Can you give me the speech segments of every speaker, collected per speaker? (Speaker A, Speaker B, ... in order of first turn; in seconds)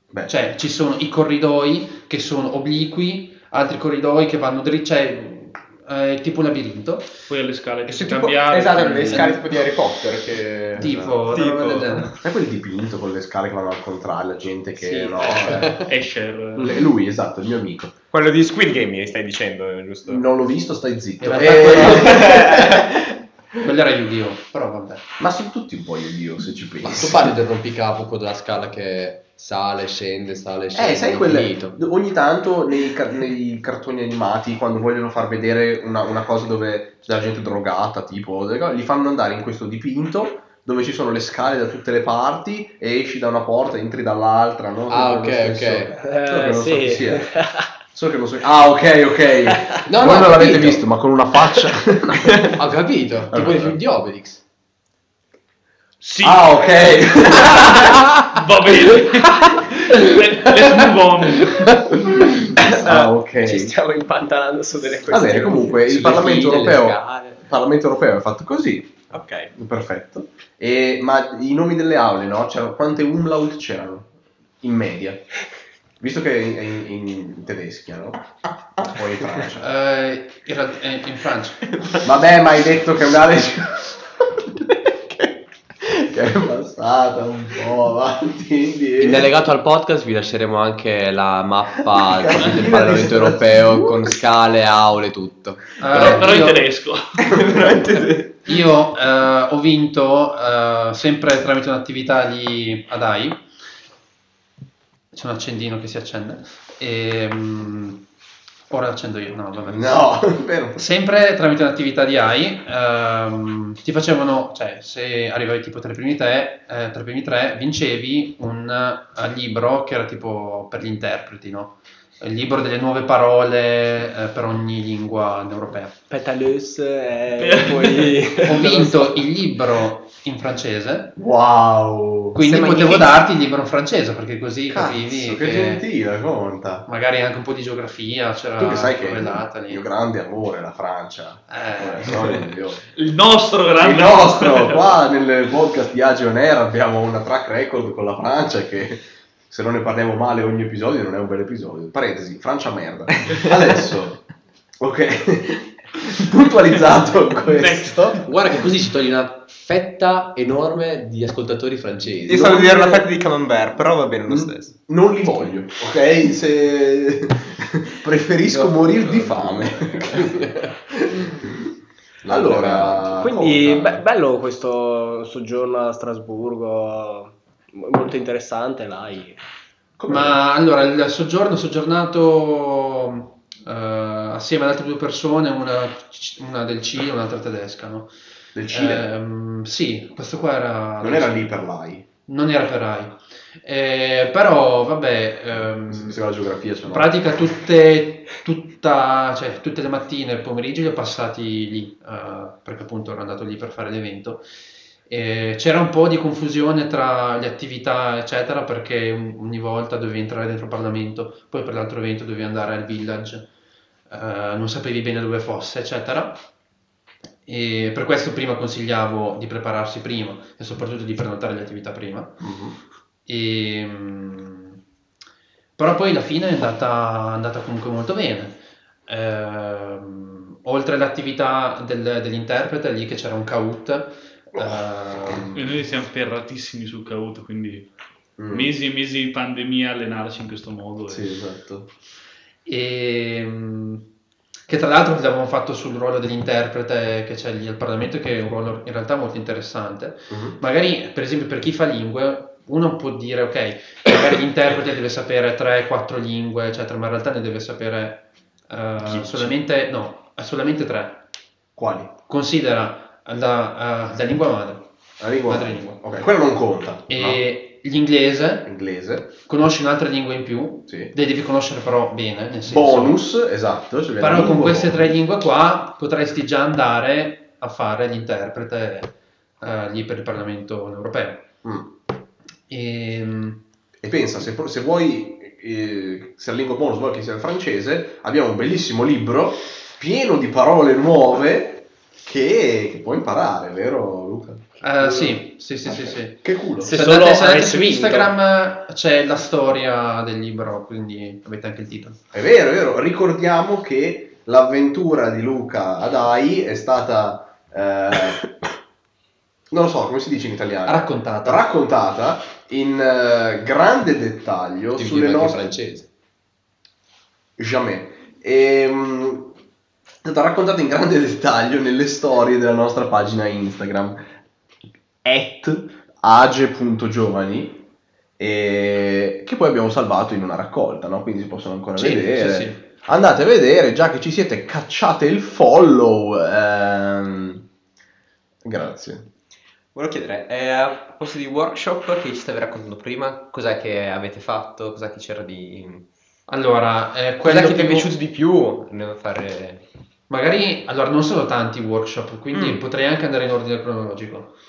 Speaker A: 0.3-7.1, 9.0-9.3, 10.8-12.2, 21.2-22.4, 23.6-25.0, 79.6-81.6, 95.8-96.6, 98.5-103.4, 105.1-108.1, 108.7-110.2, 110.8-126.0, 128.4-131.2, 132.3-135.8, 136.9-139.8, 141.5-142.4, 180.1-188.1, 188.7-191.5, 192.3-196.2, 196.9-204.5, 205.1-213.5, 214.1-216.4, 217.5-222.4, 223.3-224.8, 225.8-235.6, 242.7-244.1, 244.7-261.3, 262.3-264.9, 265.5-266.0, 267.1-268.7, 269.4-273.2, 274.2-281.5, 282.7-283.6, 294.8-302.2, 310.9-311.6, 332.0-332.8, 346.5-348.1, 350.3-354.6
Speaker B: 7.3-9.4, 15.5-16.9, 56.0-61.8, 95.9-97.4, 127.4-128.4, 142.9-145.0, 157.5-158.1, 235.5-237.9, 238.5-241.4
Speaker C: 7.9-12.2, 18.1-20.2, 21.6-22.9, 69.1-69.5, 97.2-98.5, 132.4-133.1, 162.3-164.8, 339.9-346.1, 347.4-349.9, 352.5-352.8
Speaker D: 12.2-15.8, 16.6-17.9, 20.1-22.9, 25.2-27.3, 30.7-47.3, 47.9-52.6, 53.3-53.8, 56.2-58.1, 61.9-63.8, 65.1-69.0, 69.5-74.1, 74.6-75.2, 76.0-79.7, 82.0-84.0, 85.8-89.3, 91.9-94.2, 109.7-110.8, 131.2-132.4, 134.7-136.9, 138.6-142.8, 143.8-154.2, 154.8-158.2, 162.3-163.0, 164.3-171.6, 172.2-174.0, 180.0-180.4, 188.6-189.1, 191.0-192.1, 195.9-197.1, 222.4-222.8, 238.4-238.7, 241.1-241.9, 250.3-250.6, 261.8-262.1, 265.2-267.4, 268.6-269.3, 272.7-275.1, 281.6-281.9, 284.0-295.3, 295.9-297.0, 302.3-308.4, 309.7-315.7, 317.6-319.5, 320.2-324.2, 325.2-327.8, 328.4-337.6, 338.6-339.3
Speaker E: 26.8-31.8, 44.9-46.0, 49.9-50.8, 52.5-54.4, 65.8-67.4, 89.0-96.4, 158.2-162.6, 168.5-170.7, 172.3-172.9, 315.0-316.1
Speaker F: 46.0-47.7, 62.7-65.8, 126.1-129.2, 173.1-179.4, 296.8-298.3